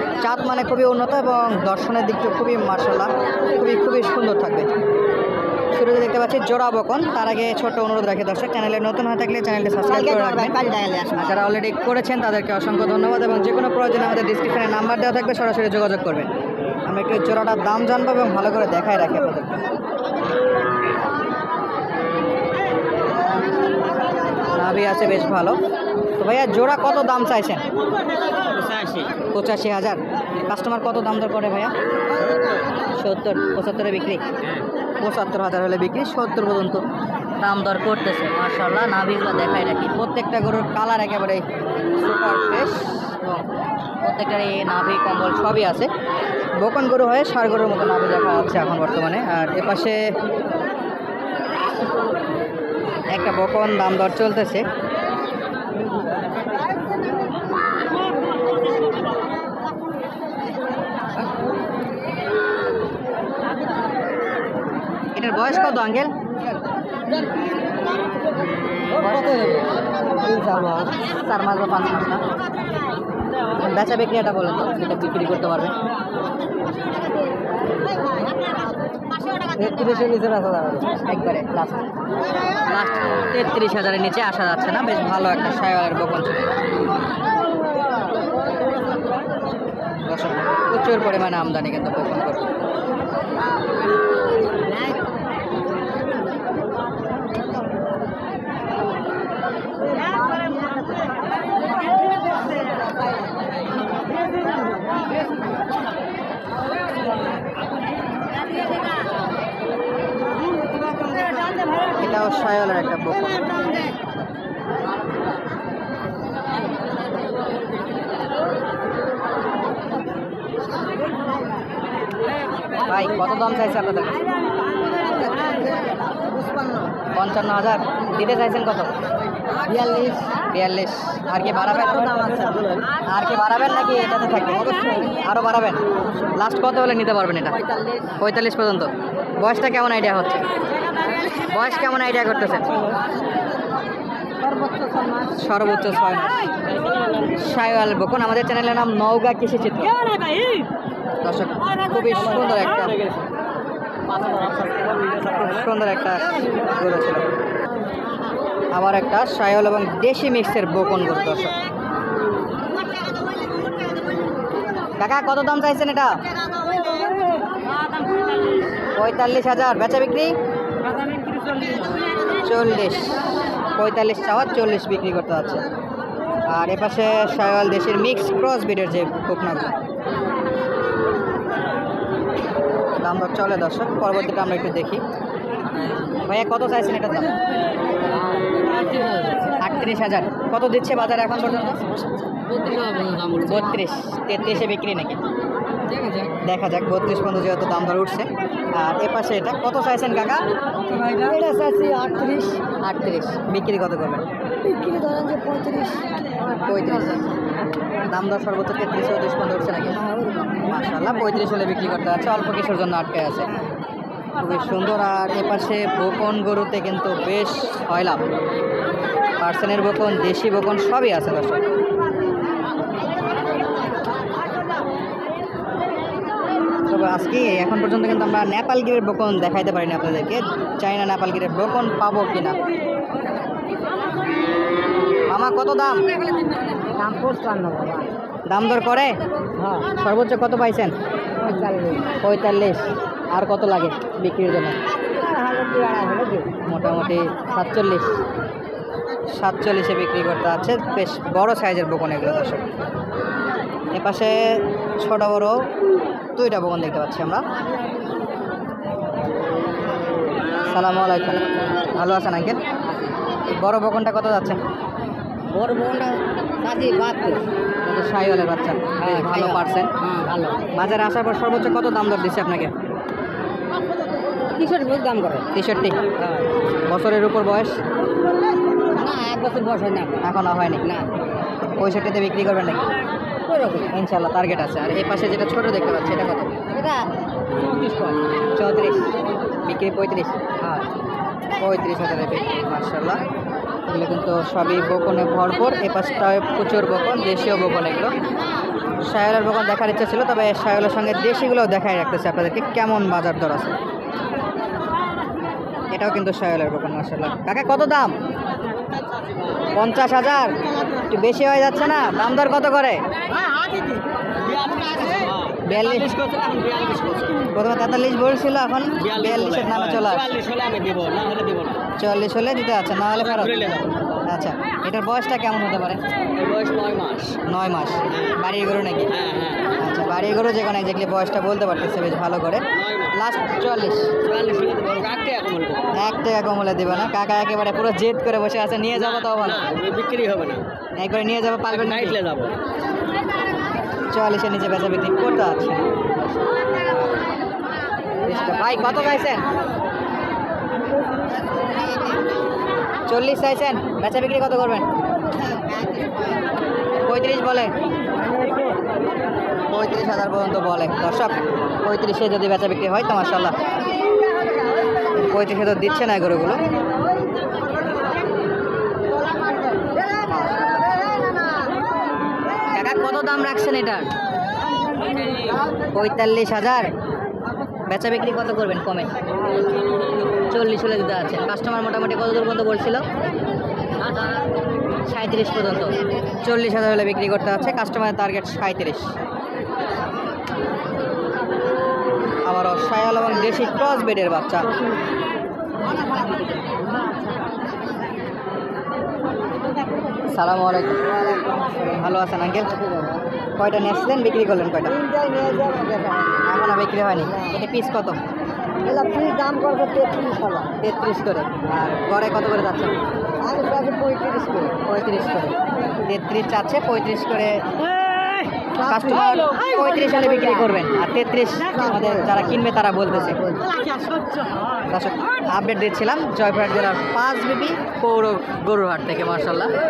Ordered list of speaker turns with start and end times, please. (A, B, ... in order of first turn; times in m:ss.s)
0:00.2-0:04.7 A
0:05.7-0:16.3 A
0:10.5-0:11.0 B
0:16.8-0:19.6 A
0:24.5-0:25.6 A
0:26.2-0:27.6 A
0:28.6-0:29.1 C
0:29.3-0:31.7 A
0:33.0-0:34.2 A
0:35.0-0:36.8 A
0:37.4-0:41.4 A
0:42.0-0:43.4 A
0:44.0-0:45.9 A
0:46.6-0:50.1 A
0:53.1-0:54.7 A
1:05.1-1:06.1 A
1:08.9-1:09.6 A
1:09.1-1:09.4 B
1:10.2-1:10.9 B
1:11.0-1:12.2 A
1:13.6-1:15.7 A
1:19.5-1:21.0 B
1:21.1-1:21.9 A
1:22.7-1:26.4 A
1:30.0-1:32.4 A
1:52.0-1:53.6 A
2:02.8-2:04.2 A
2:07.1-2:08.9 A
2:09.6-2:10.4 B
2:10.5-2:12.4 A
2:13.0-2:17.6 A
2:18.1-2:20.4 A
2:21.5-2:22.8 A
2:24.6-2:24.9 B
2:25.4-2:26.5 A
2:27.4-2:30.0 A
2:31.2-2:33.0 A
2:34.4-2:35.0 C
2:35.2-2:37.3 A
2:38.7-2:41.6 A
2:45.0-2:46.2 A
2:49.0-2:50.3 A
2:52.4-2:55.6 A
2:56.4-2:59.7 A
3:03.0-3:05.0 A
3:06.2-3:07.3 A
3:09.6-3:11.8 A
3:12.5-3:13.4 B
3:13.4-3:15.2 A
3:16.4-3:20.5 A
3:21.0-3:22.6 B
3:22.8-3:24.2 A
3:24.6-3:26.0 B
3:26.6-3:27.4 A
3:28.1-3:30.0 A
3:30.1-3:30.6 B
3:30.6-3:33.5 A
3:34.4-3:38.2 A
3:39.4-3:41.6 A
3:46.9-3:52.6 A
3:55.3-3:56.0 A
3:57.0-3:58.1 B
3:58.5-3:59.2 A
3:59.6-3:59.9 B
4:00.0-4:00.9 A
4:01.4-4:02.1 B
4:02.2-4:04.8 A
4:05.1-4:06.5 B
4:06.6-4:08.2 A
4:09.3-4:12.6 A
4:13.9-4:15.7 A
4:16.4-4:17.4 A
4:20.6-4:22.6 A
4:23.5-4:24.6 A
4:25.5-4:27.4 C
4:25.6-4:27.4 B
4:27.8-4:29.9 A
4:29.0-4:29.6 C
4:30.0-4:30.6 B
4:30.2-4:30.5 C
4:30.7-4:32.7 A
4:34.6-4:35.4 B
4:34.8-4:35.3 C
4:35.5-4:36.0 A
4:36.9-4:37.8 A
4:38.9-4:40.2 B
4:39.3-4:40.0 C
4:40.2-4:40.8 A
4:41.8-4:42.8 A
4:43.5-4:43.9 B
4:43.9-4:46.5 A
4:47.6-4:48.2 B
4:48.5-4:49.0 A
4:49.6-4:50.4 A
4:51.6-4:53.2 A
4:53.9-4:58.1 A
4:59.1-5:03.7 A
5:05.9-5:08.1 A
5:09.7-5:10.5 A
5:11.1-5:13.0 A
5:14.7-5:17.3 C
5:15.6-5:16.2 A
5:17.5-5:20.3 A
5:19.0-5:21.8 C
5:22.0-5:26.0 A
5:23.4-5:23.8 C
5:26.4-5:27.4 C
5:27.4-5:29.2 A
5:29.2-5:29.6 C
5:29.7-5:34.1 A
5:34.2-5:35.9 C
5:35.9-5:39.7 A
5:39.2-5:40.6 C
5:41.0-5:42.2 A
5:42.0-5:42.5 C
5:44.1-5:45.9 A
5:48.2-5:49.4 A
5:53.1-5:54.8 A
5:57.0-5:57.7 A
5:59.7-6:03.5 A
6:05.2-6:06.6 A
6:10.3-6:10.6 A
6:12.7-6:14.1 A
6:15.9-6:16.9 A
6:17.9-6:19.1 A
6:20.5-6:23.0 A
6:25.0-6:29.1 A
6:32.4-6:34.7 A
6:40.2-6:41.1 A
6:41.1-6:42.0 B
6:42.0-6:42.7 A
6:42.8-6:43.2 B
6:43.6-6:45.0 A
6:44.9-6:46.4 B
6:46.4-6:48.2 A
6:48.8-6:50.7 B
6:50.8-6:53.0 A
6:53.4-6:54.8 B
6:54.8-6:55.5 A
6:56.1-6:57.6 A
6:58.8-7:03.4 A
7:01.7-7:02.4 B
7:03.3-7:03.7 B
7:04.9-7:09.7 A